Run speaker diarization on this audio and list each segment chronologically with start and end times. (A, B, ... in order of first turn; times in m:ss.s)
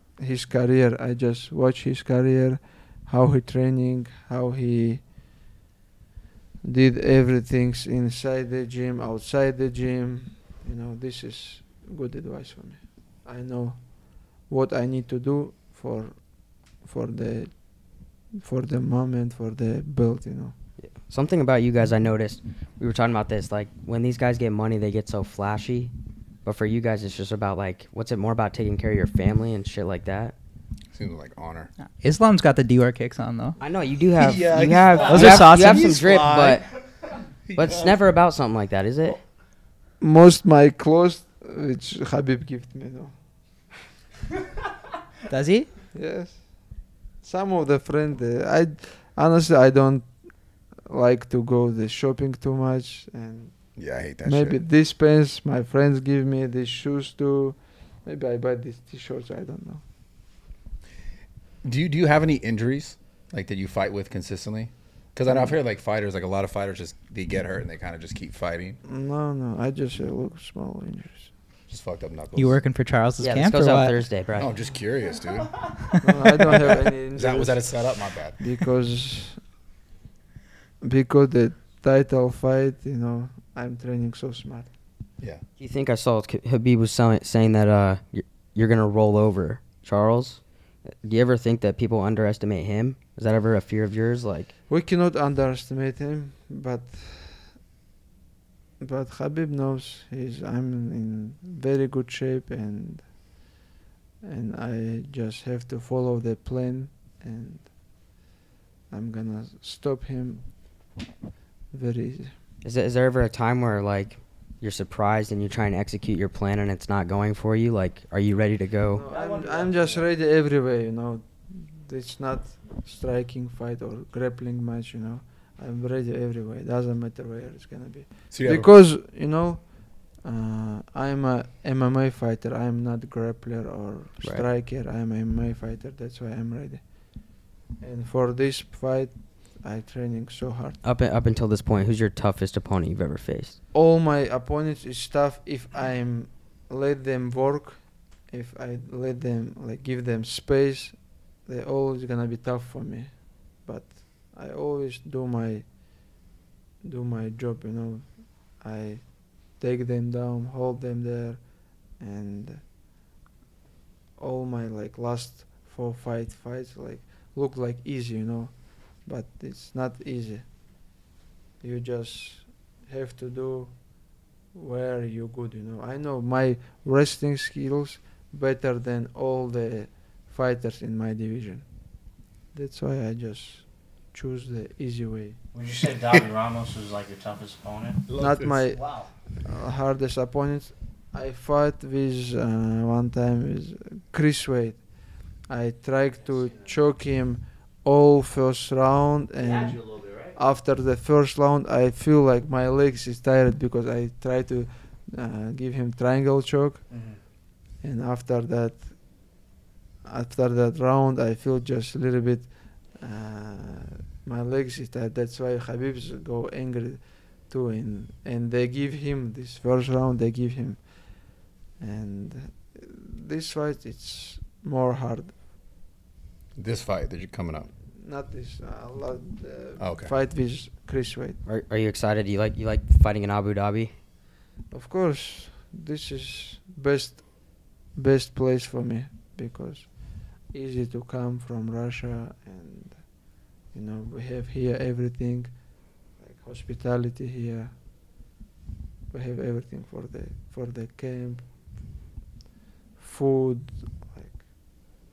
0:00.2-0:05.0 A
0:06.6-0:16.2 A
0:16.8-0:17.6 A
0:18.4-0:20.5 A
0:20.8-0:25.9 B
0:26.4-0:30.3 B
0:30.9-0:31.7 C
0:32.0-0:33.6 D
0:33.6-0:36.7 B
0:34.2-0:34.8 C
0:35.0-0:36.0 D
0:37.6-0:39.2 B
0:40.0-0:43.1 A
0:45.3-0:45.7 D
0:45.9-0:46.5 A
0:47.2-0:50.1 A
0:50.8-0:53.6 A
0:53.8-0:54.6 C
0:54.2-0:59.8 A
1:01.6-1:08.8 C
1:05.3-1:05.6 A
1:08.8-1:11.3 A
1:11.7-1:12.6 C
1:12.4-1:14.0 D
1:13.2-1:14.5 B
1:14.4-1:15.9 C
1:16.0-1:19.4 A
1:16.5-1:18.4 C
1:20.8-1:24.7 A
1:25.6-1:34.5 B
1:34.7-1:37.5 A
1:38.8-1:43.1 A
1:44.2-1:47.7 A
1:48.9-1:50.4 A
1:51.7-1:52.3 A
1:52.6-1:59.0 B
1:58.9-2:16.8 A
1:59.1-2:00.0 E
2:08.3-2:08.7 C
2:17.8-2:20.8 A
2:20.8-2:23.6 B
2:23.7-2:35.7 A
2:36.8-2:42.6 A
2:44.2-2:50.5 A
2:51.6-2:53.8 A
2:54.5-3:01.7 A
3:02.5-3:05.4 A
3:05.6-3:08.0 E
3:08.1-3:08.7 C
3:08.2-3:08.8 A
3:09.4-3:14.8 A
3:15.5-3:19.8 A
3:19.4-3:20.3 E
3:20.4-3:26.8 A
3:27.8-3:28.9 A
3:30.0-3:40.8 A
3:41.8-3:45.3 A
3:46.6-3:47.7 C
3:47.9-3:51.4 A
3:49.8-3:50.1 C
3:51.5-3:53.9 B
3:54.7-4:03.1 A
4:03.7-4:05.6 A
4:06.2-4:07.8 A
4:09.1-4:11.5 A
4:13.0-4:14.4 A